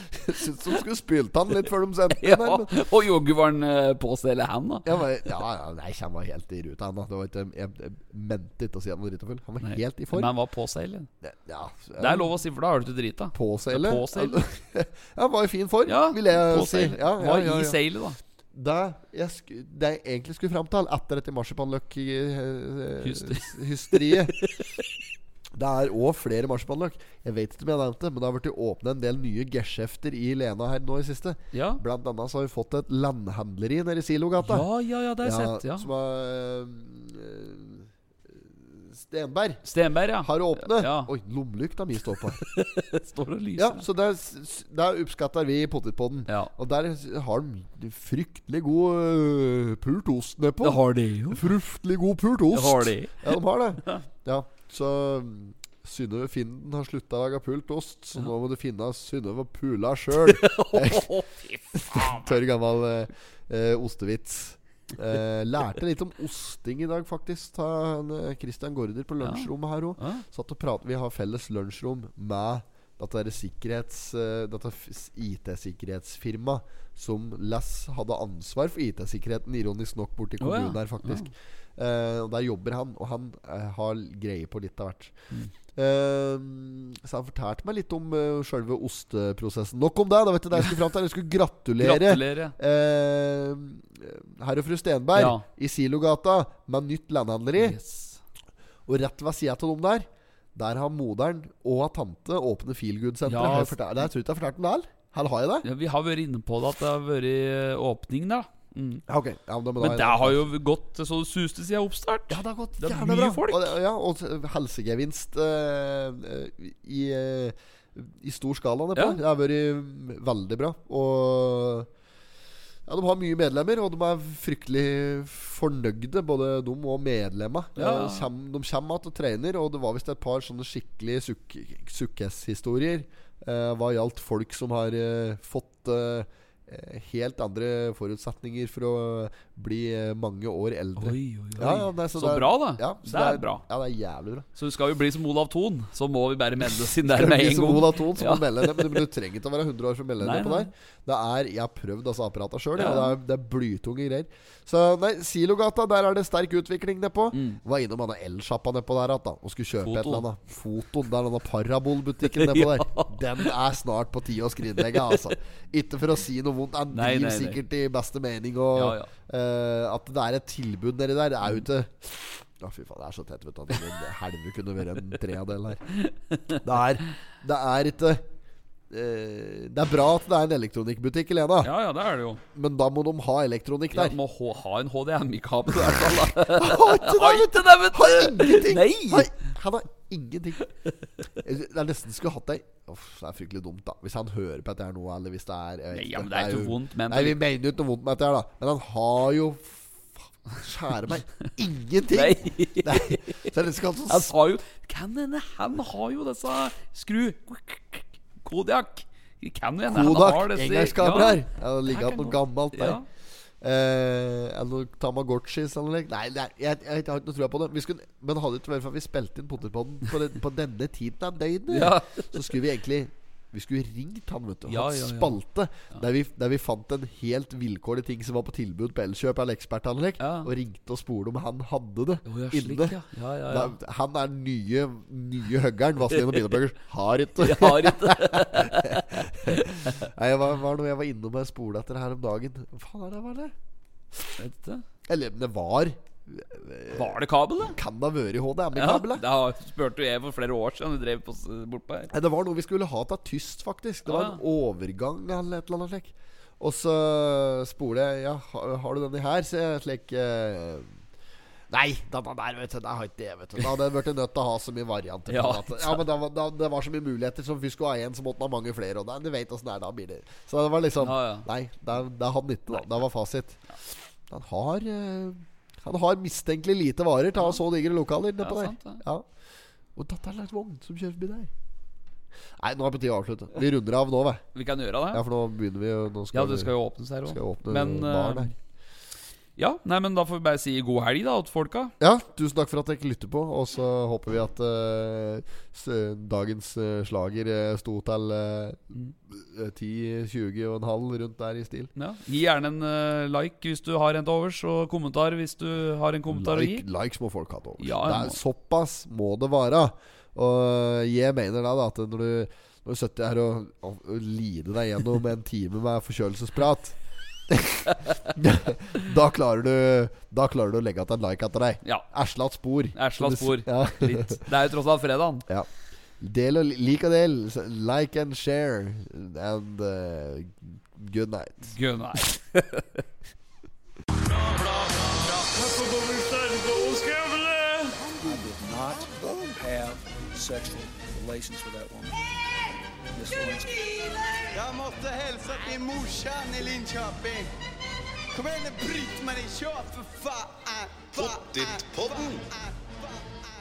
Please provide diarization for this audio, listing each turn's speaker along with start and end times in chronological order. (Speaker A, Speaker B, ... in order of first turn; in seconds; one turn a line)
Speaker A: 0.1-2.7
Speaker B: 2.2-5.0
Speaker A: 4.9-10.3
Speaker B: 9.6-11.1
Speaker A: 11.2-12.3
Speaker B: 12.0-14.4
Speaker A: 13.3-17.8
Speaker B: 15.8-18.2
Speaker A: 18.5-24.4
Speaker B: 23.0-24.8
Speaker A: 25.6-34.7
Speaker B: 31.5-31.8
Speaker B: 34.4-35.9
Speaker A: 35.2-39.6
Speaker B: 39.6-41.1
Speaker A: 40.2-42.4
Speaker B: 42.4-43.8
Speaker A: 43.6-61.2
Speaker B: 50.6-51.5
Speaker B: 52.5-53.2
Speaker B: 60.1-62.4
Speaker A: 61.7-85.2
Speaker B: 69.2-70.2
Speaker B: 80.4-81.3
Speaker A: 85.8-97.8
Speaker B: 91.8-92.5
Speaker B: 95.2-95.4
Speaker B: 97.6-98.2
Speaker A: 98.9-105.7
Speaker B: 103.3-103.8
Speaker B: 105.6-109.0
Speaker A: 109.1-110.5
Speaker B: 109.8-113.8
Speaker A: 112.3-121.9
Speaker B: 119.0-119.2
Speaker A: 122.9-144.5
Speaker B: 127.8-128.3
Speaker B: 141.0-143.6
Speaker B: 144.6-149.1
Speaker A: 147.0-175.8
Speaker B: 150.2-150.7
Speaker B: 152.8-153.2
Speaker B: 157.3-157.6
Speaker B: 159.8-160.2
Speaker B: 162.2-163.5
Speaker B: 164.8-165.3
Speaker B: 166.9-167.6
Speaker B: 168.8-169.1
Speaker B: 175.9-176.6
Speaker A: 176.6-178.3
Speaker A: 178.9-181.7
Speaker B: 181.6-182.4
Speaker A: 182.5-184.2
Speaker B: 183.9-189.3
Speaker A: 186.5-190.7
Speaker A: 191.4-204.3
Speaker B: 195.9-197.4
Speaker B: 202.1-203.5
Speaker B: 204.1-213.1
Speaker A: 209.9-213.0
Speaker A: 213.6-243.5
Speaker B: 221.7-222.6
Speaker B: 224.7-225.4
Speaker B: 230.2-230.5
Speaker B: 232.2-233.8
Speaker B: 236.2-236.4
Speaker B: 237.4-240.1
Speaker B: 244.4-244.8
Speaker A: 245.1-247.1
Speaker B: 246.9-247.8
Speaker A: 247.7-249.2
Speaker B: 248.8-252.1
Speaker A: 252.1-261.0
Speaker B: 254.1-254.4
Speaker A: 261.7-279.3
Speaker B: 265.3-266.0
Speaker B: 271.0-271.5
Speaker B: 278.4-279.0
Speaker A: 280.0-281.5
Speaker A: 282.6-284.4
Speaker B: 284.5-285.2
Speaker A: 285.1-286.7
Speaker B: 286.3-288.5
Speaker A: 287.3-288.5
Speaker B: 289.6-291.9
Speaker A: 292.0-301.9
Speaker B: 302.0-306.9
Speaker A: 306.3-317.0
Speaker B: 307.8-308.4
Speaker A: 317.5-324.4
Speaker B: 322.9-325.5
Speaker A: 326.2-332.2
Speaker B: 331.7-333.0
Speaker C: 334.1-342.3
Speaker C: 343.1-344.5
Speaker D: 344.5-347.5
Speaker D: 348.3-353.4
Speaker C: 351.2-352.4